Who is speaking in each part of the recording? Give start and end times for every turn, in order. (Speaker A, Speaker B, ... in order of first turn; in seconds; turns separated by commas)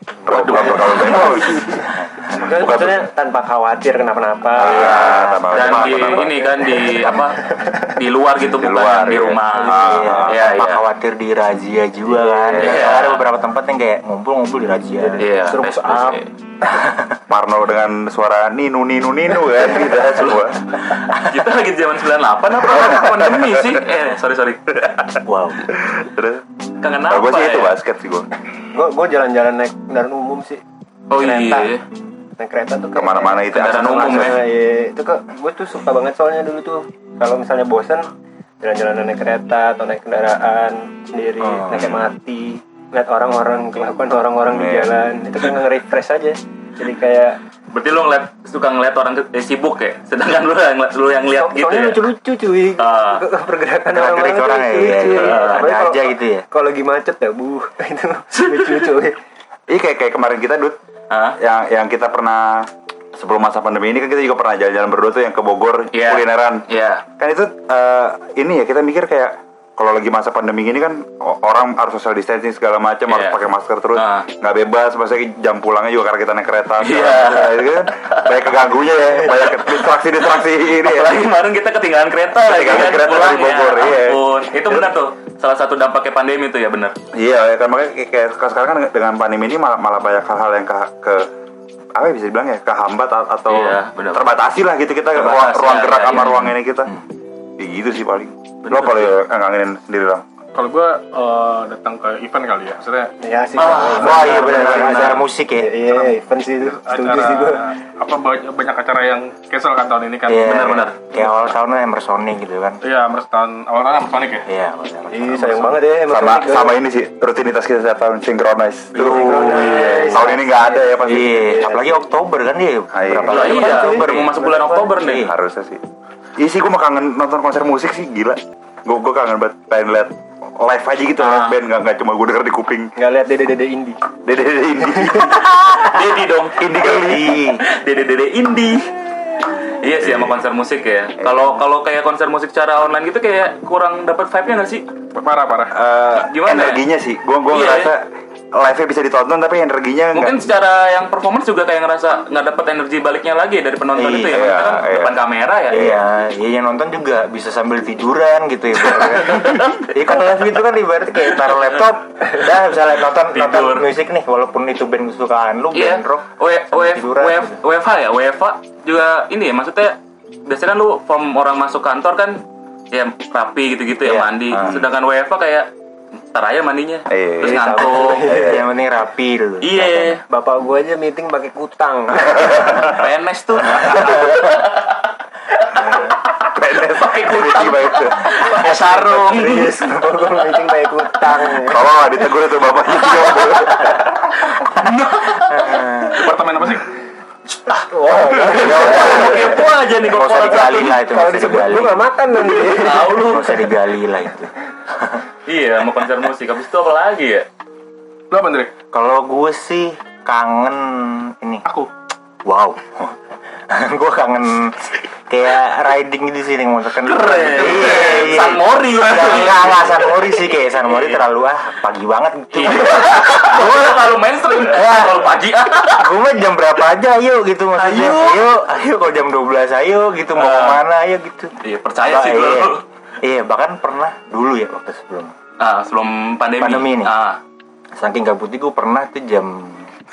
Speaker A: 0.3-1.0, Speaker B: 0.3-1.6, Speaker C: 0.5-4.9, Speaker D: 1.1-1.7, Speaker B: 2.3-3.0, Speaker B: 4.6-6.3, Speaker E: 4.7-7.3, Speaker A: 4.7-10.8, Speaker C: 6.7-7.8, Speaker B: 8.4-10.4, Speaker E: 9.6-15.3, Speaker C: 9.8-10.1, Speaker C: 12.1-12.8, Speaker B: 12.5-12.9, Speaker A: 12.6-13.2, Speaker C: 14.9-16.2, Speaker A: 15.2-16.3, Speaker E: 16.8-17.2, Speaker B: 17.3-20.7, Speaker A: 19.8-25.1, Speaker B: 22.7-23.8, Speaker E: 25.2-25.7, Speaker B: 25.8-26.4, Speaker A: 26.8-27.8, Speaker B: 27.1-28.3, Speaker C: 28.7-30.6, Speaker A: 31.1-31.8, Speaker C: 31.1-31.7, Speaker C: 32.4-38.1, Speaker B: 33.0-34.4, Speaker A: 33.5-34.4, Speaker C: 38.6-47.4, Speaker E: 41.4-41.9, Speaker B: 41.7-42.1, Speaker B: 44.5-44.9, Speaker A: 47.7-52.1, Speaker C: 51.3-59.2, Speaker A: 52.8-53.2, Speaker E: 53.9-56.5, Speaker A: 55.2-55.6, Speaker B: 59.7-60.8, Speaker A: 61.1-61.4, Speaker B: 61.4-66.6, Speaker A: 65.9-67.0, Speaker B: 67.2-81.3, Speaker A: 73.1-73.4, Speaker A: 73.9-74.3, Speaker A: 76.8-78.6, Speaker A: 79.2-87.0, Speaker B: 82.4-84.9, Speaker B: 87.1-91.3, Speaker B: 92.0-96.9, Speaker A: 93.5-94.2, Speaker A: 95.1-96.5, Speaker E: 96.3-97.0, Speaker B: 97.6-100.2, Speaker A: 98.7-99.2, Speaker D: 100.5-103.1, Speaker C: 103.2-107.7, Speaker A: 103.6-104.6, Speaker E: 104.0-105.8, Speaker D: 104.1-105.0, Speaker D: 106.6-110.8, Speaker E: 110.3-112.8, Speaker A: 110.4-111.0, Speaker D: 112.8-114.5, Speaker E: 114.4-115.8, Speaker C: 115.1-116.8, Speaker B: 116.1-121.3, Speaker C: 119.0-121.9, Speaker E: 119.0-120.4, Speaker A: 119.8-120.0, Speaker E: 121.0-125.3, Speaker B: 122.9-123.6, Speaker A: 123.3-125.3, Speaker C: 123.3-124.9, Speaker B: 125.1-125.8, Speaker B: 126.4-132.9, Speaker A: 131.2-131.6, Speaker C: 133.0-134.0, Speaker B: 134.2-135.6, Speaker C: 134.8-135.3, Speaker A: 135.3-138.9, Speaker B: 136.6-137.4, Speaker E: 136.9-137.6, Speaker A: 139.8-144.9, Speaker B: 140.0-140.4, Speaker B: 141.2-141.6, Speaker D: 145.2-145.8, Speaker B: 145.7-148.0, Speaker A: 146.1-146.8, Speaker A: 147.5-147.9, Speaker B: 148.5-150.4, Speaker A: 150.1-155.9, Speaker E: 153.9-154.8, Speaker B: 154.3-155.2, Speaker E: 155.7-167.6, Speaker B: 155.7-156.0, Speaker A: 158.9-160.3, Speaker A: 161.3-161.8, Speaker A: 163.3-163.9, Speaker A: 165.7-172.4, Speaker A: 172.9-175.7, Speaker E: 174.0-174.8, Speaker B: 174.6-174.9, Speaker A: 176.3-178.3, Speaker B: 177.1-177.6, Speaker C: 177.4-178.6, Speaker E: 177.7-180.2, Speaker B: 178.3-178.7, Speaker A: 179.6-180.2, Speaker C: 180.3-182.9, Speaker B: 182.5-183.0, Speaker A: 182.8-185.1, Speaker E: 183.6-184.5, Speaker A: 185.6-186.3, Speaker B: 186.4-188.3, Speaker A: 186.8-189.8, Speaker C: 188.7-192.1, Speaker B: 191.7-194.1, Speaker A: 192.9-196.1, Speaker E: 195.5-196.3, Speaker D: 196.2-196.9, Speaker C: 197.9-199.6, Speaker A: 198.4-201.0, Speaker E: 198.5-199.6, Speaker E: 200.1-202.1, Speaker C: 201.0-203.3, Speaker A: 202.7-203.6, Speaker E: 203.1-205.2, Speaker A: 205.5-207.5, Speaker D: 208.3-208.7, Speaker E: 208.9-211.7, Speaker E: 212.5-213.2, Speaker E: 213.7-225.4, Speaker A: 217.0-221.2, Speaker D: 217.7-218.2, Speaker A: 222.5-226.1, Speaker E: 226.0-231.5, Speaker A: 227.8-228.5, Speaker A: 230.3-230.8, Speaker A: 231.6-232.8, Speaker E: 232.0-235.3, Speaker A: 235.6-237.4, Speaker E: 236.6-237.1, Speaker E: 238.0-239.9